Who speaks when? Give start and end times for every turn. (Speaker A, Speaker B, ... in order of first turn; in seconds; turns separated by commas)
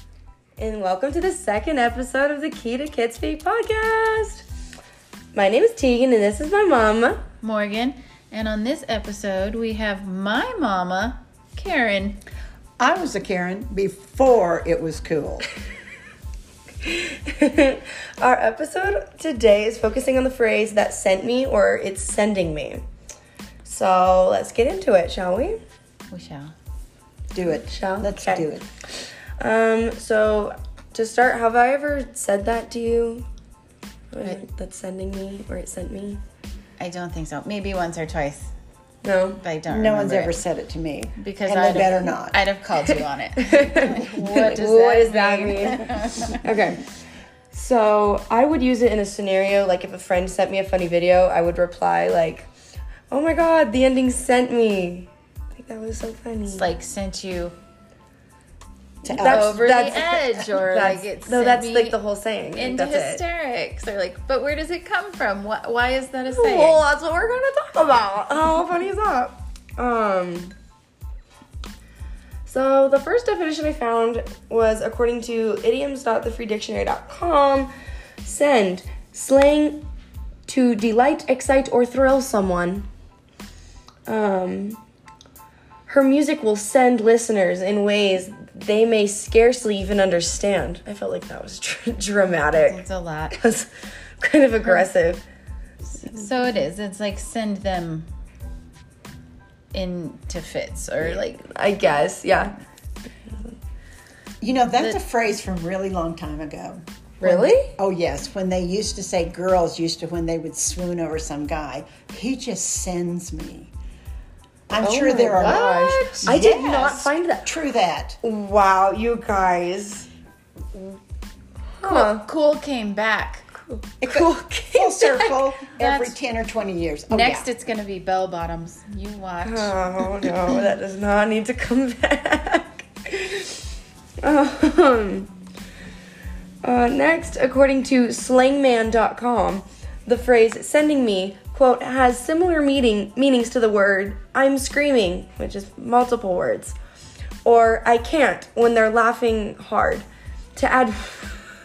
Speaker A: 0.6-4.4, Speaker A: 5.3-7.2, Speaker B: 7.4-12.2, Speaker C: 12.8-15.5, Speaker A: 16.8-22.8, Speaker A: 23.6-25.6, Speaker B: 26.1-26.5, Speaker C: 27.3-28.7, Speaker A: 27.6-28.5, Speaker A: 29.4-33.3, Speaker A: 34.1-36.2, Speaker B: 36.8-38.5, Speaker A: 39.0-39.4, Speaker B: 39.4-40.4, Speaker C: 39.7-42.4, Speaker B: 41.2-46.4, Speaker A: 43.4-46.8, Speaker A: 47.5-52.5, Speaker A: 53.1-56.7, Speaker B: 56.5-57.5, Speaker C: 59.0-59.6, Speaker A: 59.0-63.2, Speaker B: 59.2-62.0, Speaker B: 62.5-66.8, Speaker A: 66.3-70.5, Speaker A: 72.5-77.7, Speaker A: 78.2-79.9, Speaker A: 80.5-82.9, Speaker A: 84.1-84.8, Speaker A: 85.9-92.8, Speaker B: 92.6-93.4, Speaker A: 93.3-93.7, Speaker A: 94.2-95.2, Speaker B: 94.6-94.9, Speaker B: 95.9-98.1, Speaker B: 99.7-101.4, Speaker A: 101.0-102.5, Speaker C: 104.4-113.7, Speaker A: 107.2-107.7, Speaker C: 114.7-118.2, Speaker A: 114.8-117.5, Speaker A: 118.2-120.1, Speaker A: 121.8-122.2, Speaker B: 121.8-123.5, Speaker A: 123.7-125.4, Speaker C: 124.0-127.5, Speaker B: 125.8-126.2, Speaker B: 127.1-129.8, Speaker A: 129.4-133.6, Speaker A: 134.2-135.3, Speaker A: 136.6-146.8, Speaker A: 147.4-151.5